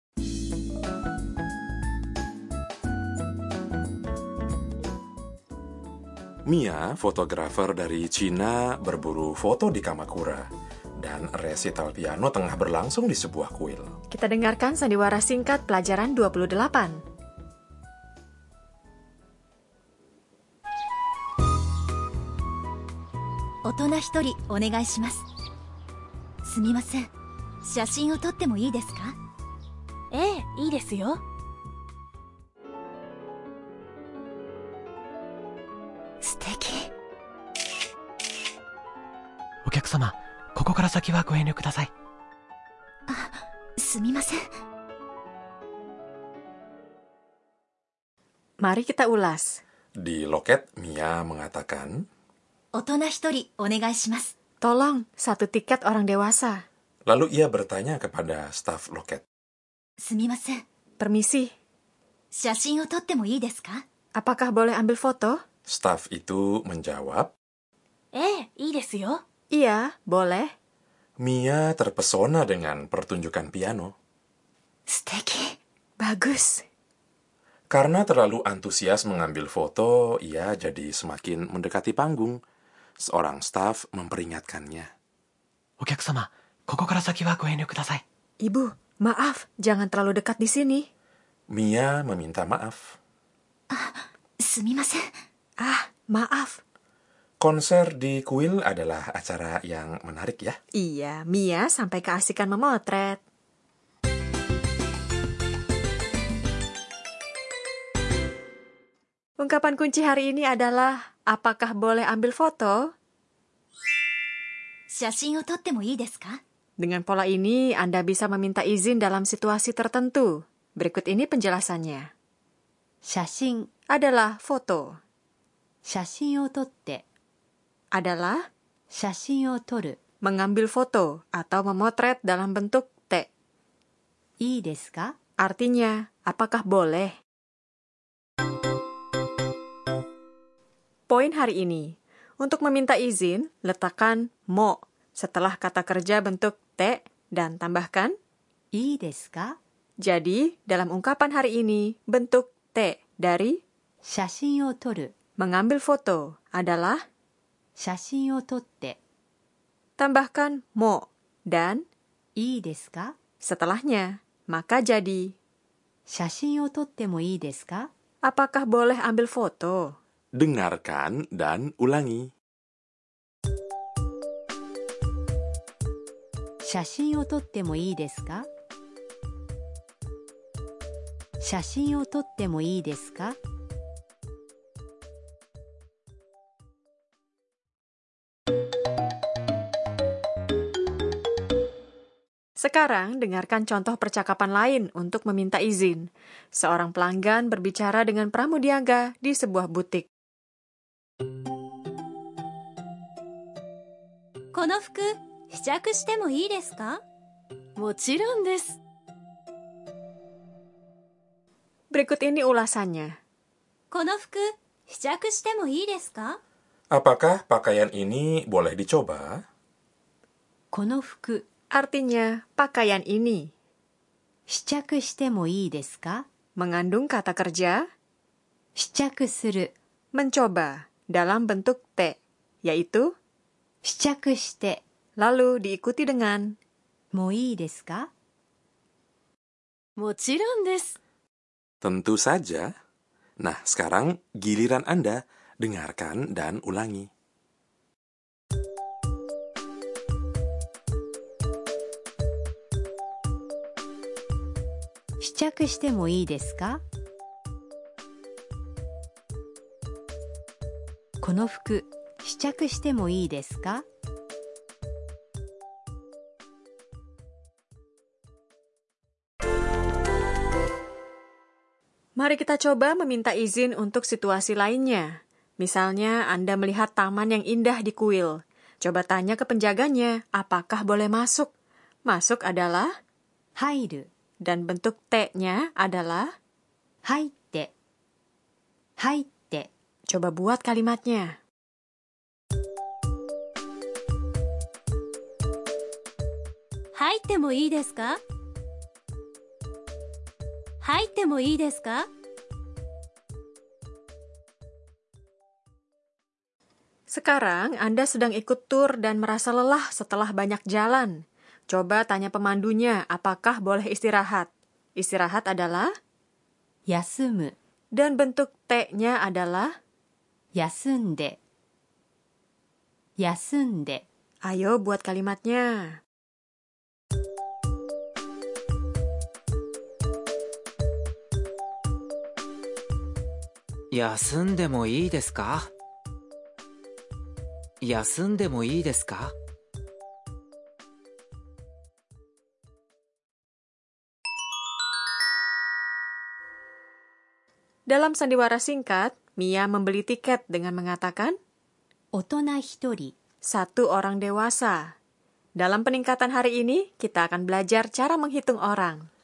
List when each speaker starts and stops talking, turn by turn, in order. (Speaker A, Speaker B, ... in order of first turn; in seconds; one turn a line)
Speaker A: 6.5-13.9
Speaker B: 14.1-17.0
Speaker C: 23.6-25.2
Speaker C: 26.4-27.1
Speaker C: 27.6-29.1
Speaker D: 30.1-31.2
Speaker C: 36.2-36.9
Speaker E: 39.6-41.9
Speaker C: 43.1-44.4
Speaker B: 48.6-49.6
Speaker A: 50.0-52.0
Speaker C: 52.7-54.3
Speaker B: 54.6-56.6
Speaker A: 57.0-59.2
Speaker C: 60.0-60.6
Speaker B: 61.0-61.5
Speaker C: 62.3-63.8
Speaker B: 64.2-65.4
Speaker A: 65.7-67.3
Speaker D: 68.1-69.2
Speaker B: 69.5-70.5
Speaker A: 71.2-73.9
Speaker C: 74.9-75.5
Speaker B: 76.0-76.6
Speaker A: 77.7-82.4
Speaker A: 83.0-84.9
Speaker E: 85.8-88.0
Speaker B: 88.4-90.9
Speaker A: 91.5-93.0
Speaker C: 93.7-95.0
Speaker B: 95.6-96.6
Speaker A: 97.4-100.6
Speaker B: 100.7-103.2
Speaker B: 109.4-112.9
Speaker C: 114.9-116.4
Speaker B: 116.8-122.1
Speaker F: 123.0-123.7
Speaker B: 123.9-125.0
Speaker F: 125.8-127.0
Speaker B: 127.9-128.4
Speaker F: 128.9-130.0
Speaker B: 130.2-133.3
Speaker F: 134.4-135.1
Speaker B: 135.4-137.1
Speaker B: 141.1-148.1
Speaker F: 148.7-149.6
Speaker B: 150.0-153.6
Speaker F: 154.0-155.1
Speaker B: 155.4-157.0
Speaker F: 157.8-159.0
Speaker B: 160.0-161.8
Speaker F: 162.4-163.1
Speaker B: 163.4-165.3
Speaker F: 166.1-167.9
Speaker B: 168.2-169.9
Speaker A: 170.4-172.3
Speaker F: 176.6-178.5
Speaker F: 181.4-183.4
Speaker B: 192.6-200.1
Speaker D: 204.7-206.6
Speaker C: 205.6-206.9
Speaker D: 207.8-208.8
Speaker B: 211.9-213.2
Speaker C: 213.9-216.4
Speaker A: 216.9-219.4
Speaker F: 220.7-221.4
Speaker B: 221.7-223.5
Speaker F: 224.5-226.2
Speaker B: 226.6-227.8
Speaker F: 228.8-229.7
Speaker B: 230.1-233.1
Speaker F: 233.8-234.8
Speaker B: 235.2-236.5
Speaker F: 237.1-238.1
Speaker D: 240.0-241.0
Speaker A: 241.8-242.7
Speaker A: 243.4-247.1
Speaker F: 255.2-256.8
Speaker F: 261.2-263.8
Speaker B: 272.2-281.5
Speaker B: 282.1-282.9
Speaker F: 283.6-284.1
Speaker B: 284.4-286.3
Speaker F: 287.1-287.7
Speaker F: 289.0-289.7
Speaker B: 290.1-291.3
Speaker D: 296.9-298.2
Speaker D: 300.8-302.1
Speaker B: 307.1-315.9
Speaker F: 316.9-317.5
Speaker B: 317.9-319.7
Speaker F: 320.5-321.4
Speaker F: 323.2-324.0
Speaker B: 324.4-326.0
Speaker G: 333.9-335.6
Speaker G: 337.8-339.3
Speaker B: 347.9-351.4
Speaker F: 352.1-353.1
Speaker B: 353.4-354.9
Speaker B: 355.6-359.0